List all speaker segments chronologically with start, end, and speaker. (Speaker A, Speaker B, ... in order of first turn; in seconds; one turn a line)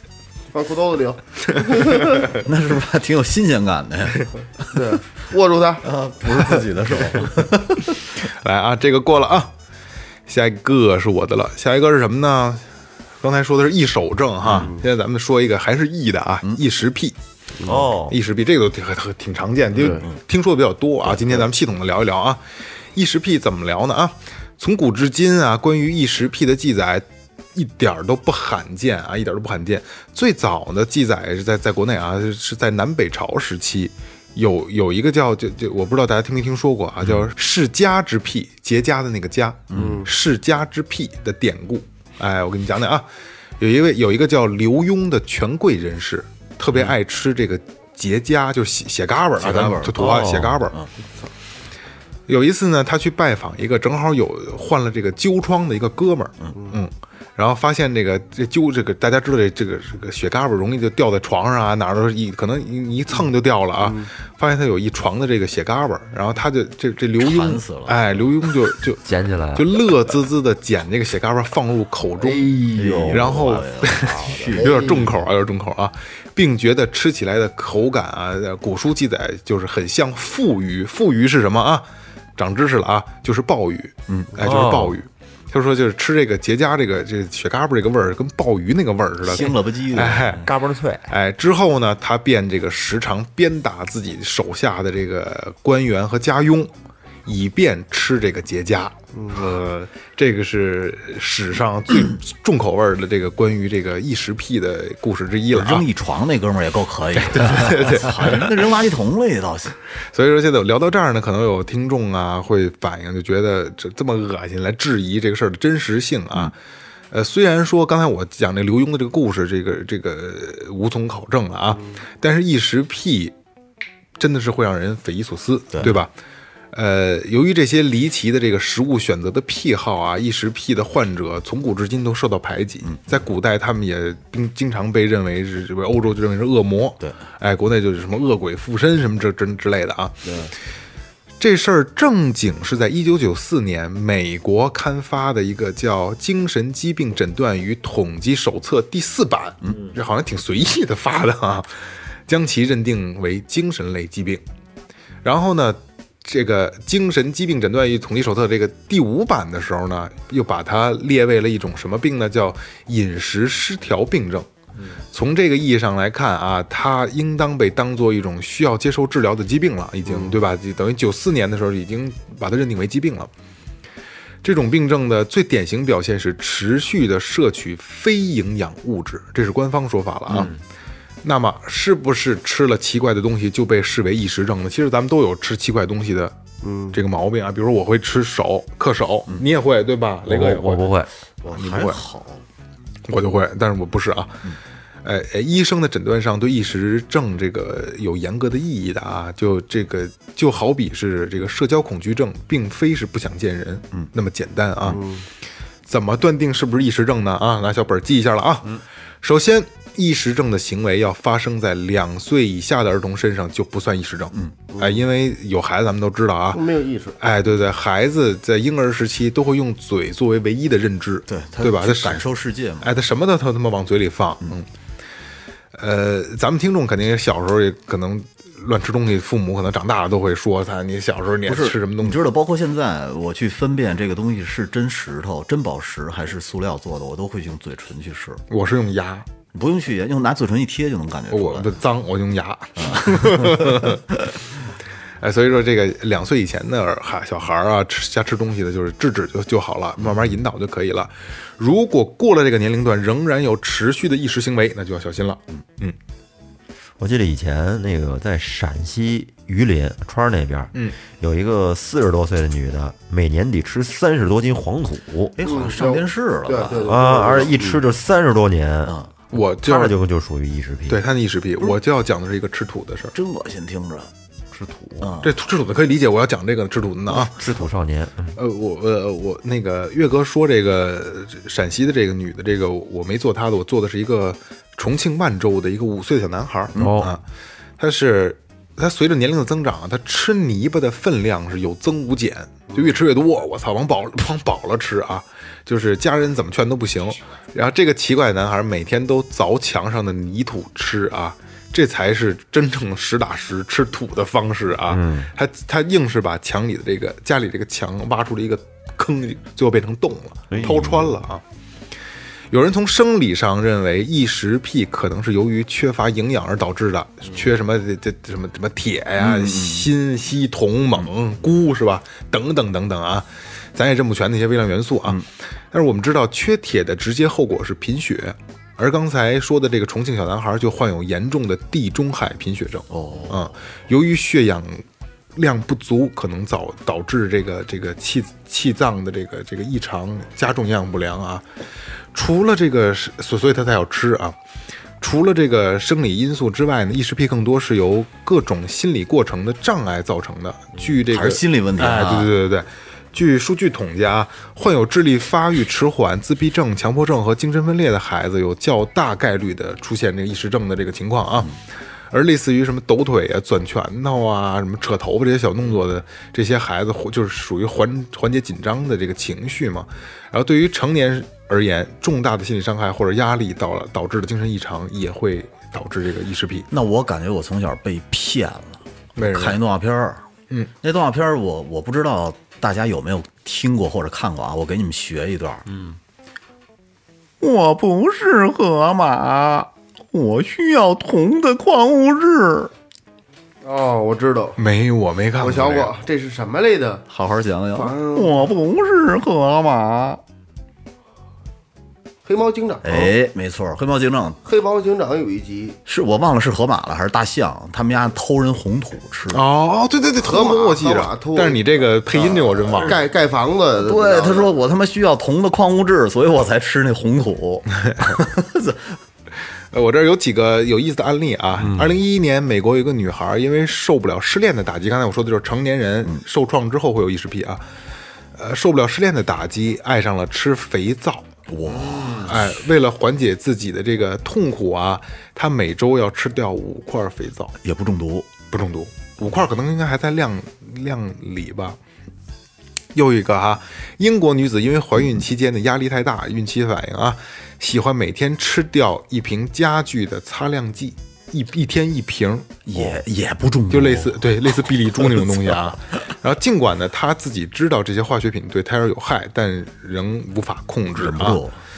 Speaker A: 0.5-2.3
Speaker B: 2.3-4.7
Speaker A: 4.7-5.8
Speaker B: 5.8-8.0
Speaker C: 8.2-9.5
Speaker C: 10.3-12.7
Speaker C: 13.2-17.2
Speaker B: 14.4-14.7
Speaker A: 14.6-14.8
Speaker D: 17.6-18.2
Speaker C: 17.7-22.4
Speaker C: 22.9-43.1
Speaker B: 39.7-40.0
Speaker A: 39.8-40.1
Speaker C: 43.6-50.8
Speaker B: 49.4-50.9
Speaker D: 50.0-50.6
Speaker C: 52.3-69.0
Speaker B: 67.2-68.1
Speaker D: 69.0-69.7
Speaker C: 69.5-72.5
Speaker D: 72.2-73.6
Speaker B: 72.8-74.8
Speaker C: 73.1-81.9
Speaker A: 74.6-75.1
Speaker C: 82.4-90.5
Speaker B: 84.1-84.4
Speaker D: 84.4-85.0
Speaker B: 89.2-90.5
Speaker D: 90.4-91.1
Speaker C: 91.1-96.7
Speaker C: 97.3-105.8
Speaker B: 105.5-109.8
Speaker C: 107.2-108.7
Speaker C: 110.1-116.5
Speaker C: 117.1-123.3
Speaker C: 124.2-126.1
Speaker B: 125.7-126.0
Speaker C: 126.7-140.3
Speaker B: 132.8-133.2
Speaker A: 140.2-140.5
Speaker C: 141.4-151.7
Speaker C: 152.3-154.4
Speaker C: 155.2-164.5
Speaker C: 165.1-173.3
Speaker C: 174.4-180.6
Speaker C: 181.2-186.3
Speaker A: 186.6-187.0
Speaker C: 186.9-190.9
Speaker D: 190.3-191.1
Speaker B: 191.4-192.4
Speaker C: 191.5-192.0
Speaker C: 193.1-194.5
Speaker C: 195.0-205.0
Speaker A: 204.9-205.2
Speaker C: 205.9-216.6
Speaker A: 214.7-215.0
Speaker A: 216.5-217.2
Speaker C: 217.2-222.2
Speaker B: 221.3-223.0
Speaker C: 222.8-224.7
Speaker C: 225.8-232.2
Speaker B: 231.5-238.4
Speaker C: 238.5-239.3
Speaker B: 239.5-241.8
Speaker C: 241.3-244.2
Speaker B: 242.8-244.0
Speaker C: 245.2-256.0
Speaker B: 250.0-250.2
Speaker D: 257.0-265.4
Speaker B: 265.4-267.4
Speaker A: 265.4-267.8
Speaker D: 266.9-271.0
Speaker B: 268.9-269.1
Speaker C: 269.3-270.0
Speaker C: 270.9-273.1
Speaker B: 273.1-274.1
Speaker D: 274.5-275.1
Speaker B: 275.0-275.3
Speaker C: 275.2-277.5
Speaker D: 277.1-278.4
Speaker C: 278.4-287.2
Speaker B: 286.8-287.1
Speaker D: 286.8-287.1
Speaker C: 287.8-311.4
Speaker D: 304.9-305.3
Speaker D: 310.5-311.1
Speaker C: 312.5-334.9
Speaker B: 319.2-319.9
Speaker B: 332.9-333.5
Speaker C: 335.4-341.4
Speaker C: 342.1-344.4
Speaker C: 345.0-361.6
Speaker B: 351.1-352.3
Speaker C: 362.1-376.7
Speaker B: 376.7-380.2
Speaker C: 379.2-379.6
Speaker B: 380.8-385.7
Speaker B: 387.4-392.7
Speaker A: 393.6-394.6
Speaker C: 394.6-395.9
Speaker A: 395.4-397.1
Speaker B: 397.1-400.2
Speaker A: 397.7-398.5
Speaker A: 402.2-403.1
Speaker B: 402.8-404.4
Speaker A: 404.4-405.8
Speaker B: 405.9-409.4
Speaker C: 409.3-413.0
Speaker A: 410.2-411.6
Speaker A: 412.1-414.5
Speaker B: 413.8-419.0
Speaker C: 419.7-427.6
Speaker D: 421.6-421.9
Speaker C: 428.4-431.3
Speaker B: 431.5-432.6
Speaker C: 431.9-437.6
Speaker B: 437.6-438.3
Speaker C: 438.5-441.8
Speaker C: 442.9-453.0
Speaker B: 452.7-454.3
Speaker C: 453.7-461.4
Speaker B: 460.9-461.6